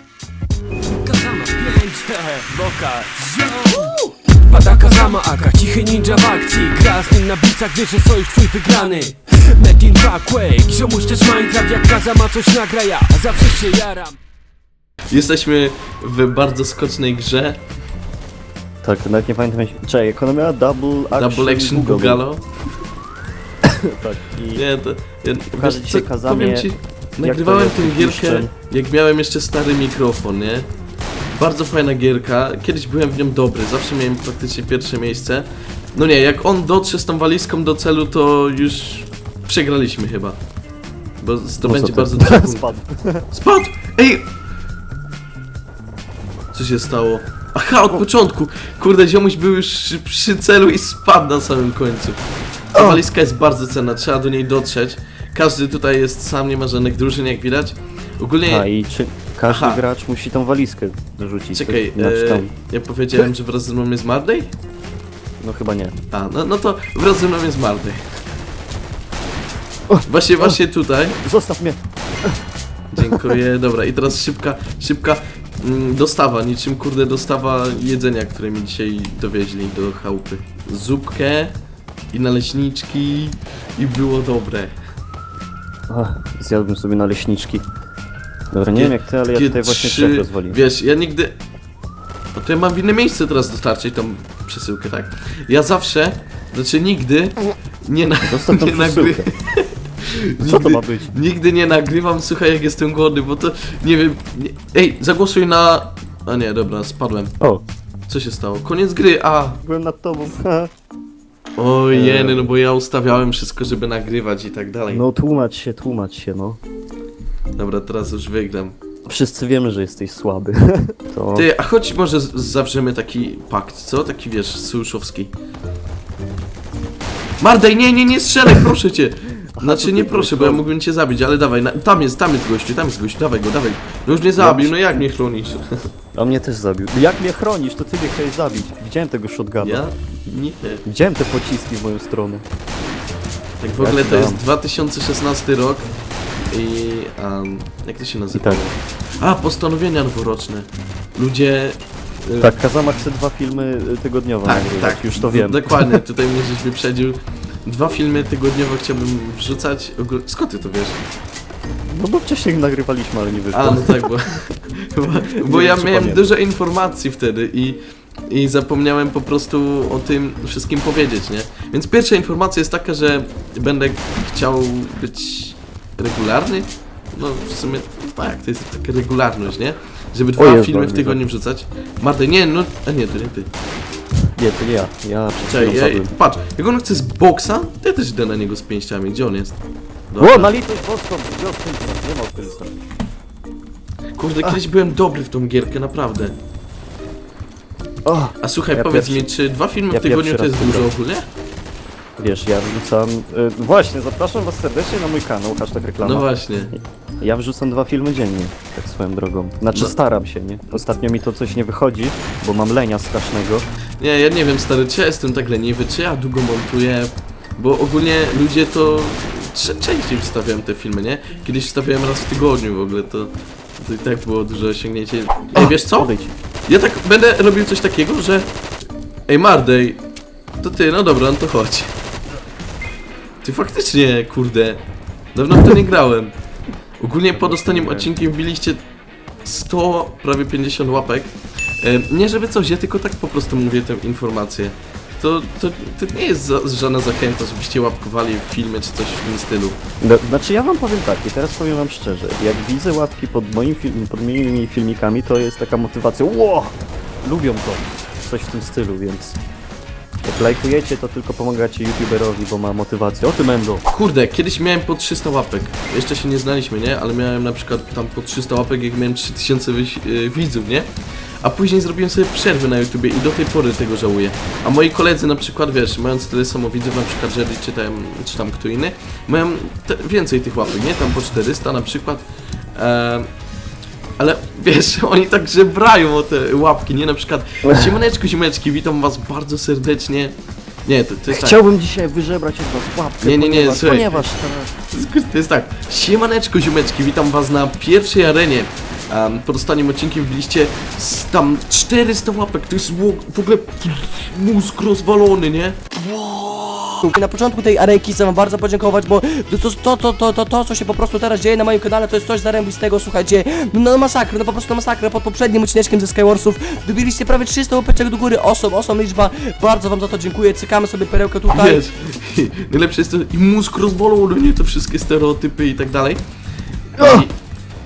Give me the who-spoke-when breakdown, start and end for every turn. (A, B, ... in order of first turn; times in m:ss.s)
0:01.0-0:14.2 A
0:15.1-0:17.6 B
0:18.8-0:22.2 C
0:21.1-0:22.4 B
0:23.6-0:24.6 C
0:24.5-0:30.7 B
0:25.6-0:28.5 C
0:31.4-0:40.4 B
0:41.2-0:42.6 B
0:41.6-0:43.2 C
0:43.3-0:44.3 B
0:46.5-0:52.2 B
0:52.7-0:58.7 B
0:52.8-0:53.0 C
0:58.4-1:02.5 C
0:59.5-0:59.8 B
1:01.5-1:04.5 B
1:05.4-1:06.0 C
1:06.1-1:08.0 B
1:09.9-1:10.6 C
1:10.0-1:11.2 B
1:11.2-1:12.4 C
1:12.9-1:21.5 B
1:13.0-1:13.4 C
1:22.1-1:24.8 B
1:25.9-1:27.6 C
1:28.5-1:30.6 C
1:28.7-1:31.4 B
1:32.3-1:47.3 B
1:38.2-1:39.3 C
1:40.4-1:41.1 C
1:48.1-1:49.6 B
1:49.6-1:50.7 C
1:51.6-1:55.0 B
1:51.9-1:52.5 C
1:54.9-1:56.6 C
1:57.6-1:58.8 B
1:59.1-2:01.5 C
2:01.3-2:05.3 B
2:07.4-2:15.6 B
2:09.6-2:10.7 C
2:14.4-2:15.0 C
2:16.2-2:19.8 C
2:19.6-2:20.8 B
2:20.8-2:22.4 C
2:23.6-2:25.9 B
2:23.8-2:24.4 C
2:26.5-2:32.5 B
2:28.3-2:28.6 C
2:32.4-2:36.0 C
2:34.5-2:41.0 B
2:41.9-2:44.1 C
2:43.5-3:03.5 B
2:45.1-2:46.3 C
3:00.4-3:01.2 C
3:04.4-3:06.2 C
3:05.4-3:09.6 B
3:10.1-3:10.5 B
3:10.2-3:12.7 C
3:14.2-3:16.4 B
3:18.1-3:19.2 C
3:18.4-3:21.2 B
3:19.9-3:20.9 C
3:22.2-3:33.7 C
3:26.0-3:26.7 B
3:34.0-3:46.1 B
3:45.6-3:46.3 C
3:46.7-3:48.5 B
3:49.3-3:50.0 B
3:50.6-3:51.9 B
3:53.4-3:54.8 B
3:55.3-3:56.3 B
3:57.0-3:58.8 B
3:57.3-3:58.1 C
3:59.4-4:09.8 B
4:10.0-4:19.4 C
4:20.2-4:23.8 C
4:23.9-4:30.9 B
4:31.4-4:43.3 B
4:44.2-4:50.3 B
4:47.6-4:47.9 C
4:50.8-4:51.6 B
4:51.3-4:54.7 C
4:53.2-4:54.3 B
4:54.9-5:06.0 B
5:06.1-5:21.8 D
5:21.5-5:26.2 B
5:26.9-5:27.3 B
5:27.0-5:27.2 C